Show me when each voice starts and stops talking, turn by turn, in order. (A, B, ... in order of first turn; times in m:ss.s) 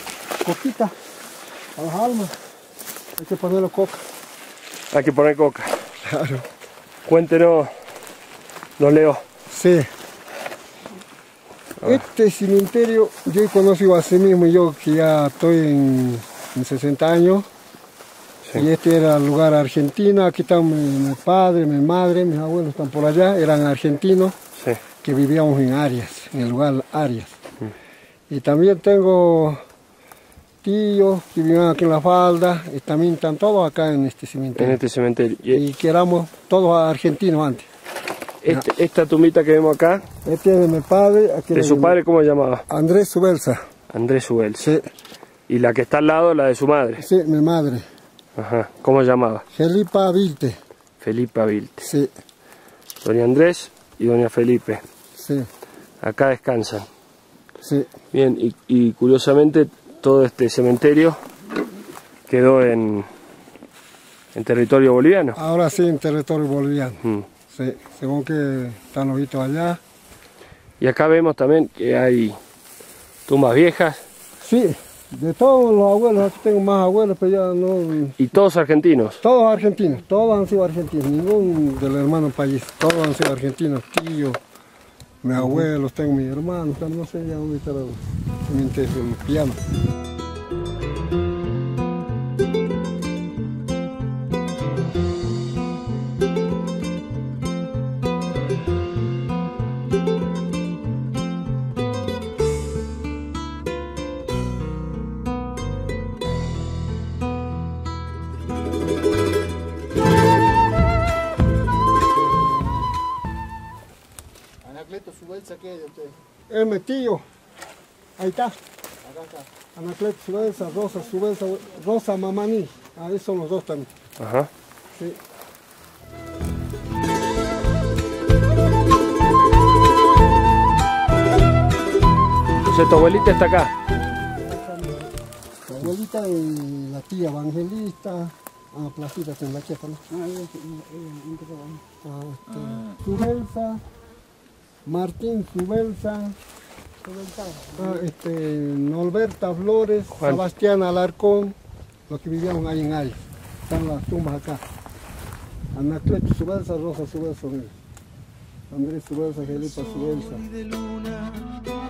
0:00.4-0:00.9 A
0:01.8-0:02.4 A
0:03.2-0:04.0 A
0:04.9-0:05.8 B
0:06.0-0:06.5 A
0:07.1-0:07.7 B
0:08.8-0:09.2 B
0:09.5-0:09.9 A
0:11.8-0:17.5 A
0:18.5-0:24.4 A
0:25.0-0:27.3 A
0:28.3-0:29.6 A
0:30.6-0:34.8 A
0:34.6-0:35.6 B
0:35.5-0:37.7 A
0:38.4-0:40.0 B
0:40.2-0:42.0 A
0:41.5-0:42.6 B
0:42.7-0:43.6 A
0:43.9-0:44.8 B
0:44.6-0:44.9 A
0:45.5-0:47.0 B
0:47.0-0:47.9 A
0:48.4-0:49.4 B
0:49.5-0:50.6 A
0:51.0-0:51.9 B
0:51.8-0:52.1 A
0:53.0-0:54.8 B
0:55.2-0:55.5 A
0:56.0-0:56.9 B
0:57.6-0:57.9 A
0:58.1-1:01.2 B
1:02.3-1:03.1 B
1:04.3-1:05.4 B
1:05.4-1:09.8 A
1:10.8-1:12.4 B
1:13.3-1:14.0 B
1:14.4-1:18.2 A
1:18.2-1:19.2 B
1:19.2-1:24.4 A
1:25.2-1:29.6 A
1:25.4-1:25.7 B
1:52.4-1:52.9 A
1:54.7-1:57.2 A
1:58.2-1:58.6 A
1:59.3-2:03.9 A
2:04.2-2:04.5 B
2:04.9-2:05.2 A
2:12.6-2:13.7 B
2:15.6-2:20.0 A
2:20.2-2:21.8 C
2:22.0-2:23.8 A
2:24.9-2:26.4 A
2:27.1-2:27.7 C
2:27.7-2:31.6 A
2:30.2-2:30.4 B
2:32.1-2:34.6 A
2:35.7-2:37.7 A
2:38.7-2:40.4 A
2:39.5-2:41.6 D